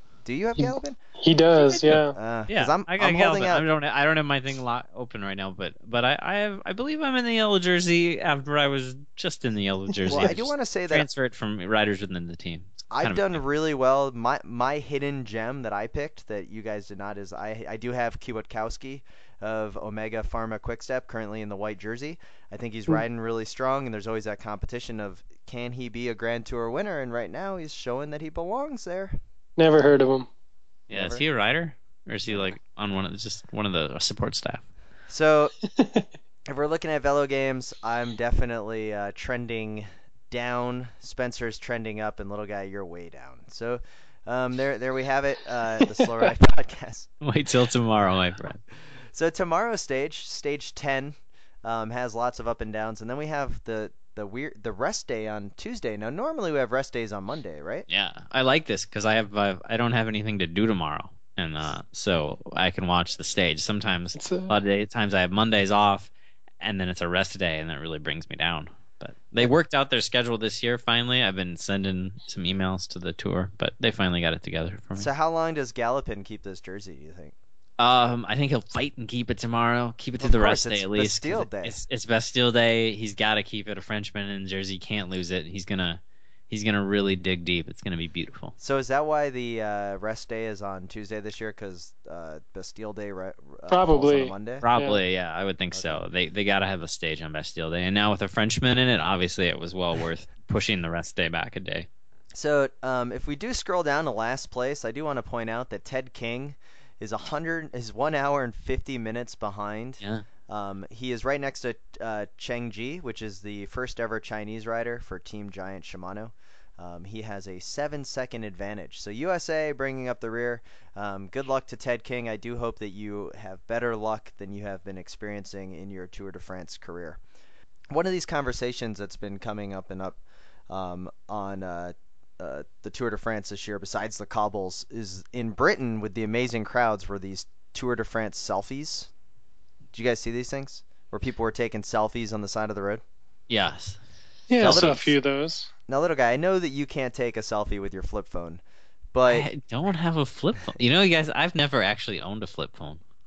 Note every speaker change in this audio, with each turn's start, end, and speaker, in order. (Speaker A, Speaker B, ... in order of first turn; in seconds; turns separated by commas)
Speaker A: 0.2-1.0, Speaker B: 0.6-2.2, Speaker C: 1.9-13.4, Speaker A: 2.1-3.6, Speaker A: 10.1-11.1, Speaker B: 10.1-10.3, Speaker A: 12.9-29.2, Speaker B: 29.6-30.3, Speaker C: 30.9-34.6, Speaker A: 30.9-31.2, Speaker A: 32.3-32.5, Speaker A: 35.1-35.5, Speaker B: 35.8-36.1, Speaker A: 36.5-47.1, Speaker C: 47.2-48.6, Speaker A: 49.1-57.9, Speaker C: 57.9-75.1, Speaker B: 64.1-64.5, Speaker A: 75.0-77.3, Speaker C: 77.8-88.5, Speaker A: 80.2-81.8, Speaker A: 88.6-94.7, Speaker B: 93.7-95.0, Speaker C: 94.6-101.9, Speaker A: 95.8-96.0, Speaker A: 102.3-127.2, Speaker A: 127.9-130.2, Speaker A: 130.7-139.1, Speaker A: 139.9-143.0, Speaker C: 143.5-144.0, Speaker B: 144.5-145.7, Speaker C: 144.6-144.9, Speaker A: 144.6-145.2, Speaker A: 145.9-148.6, Speaker A: 149.1-149.5, Speaker C: 149.3-153.0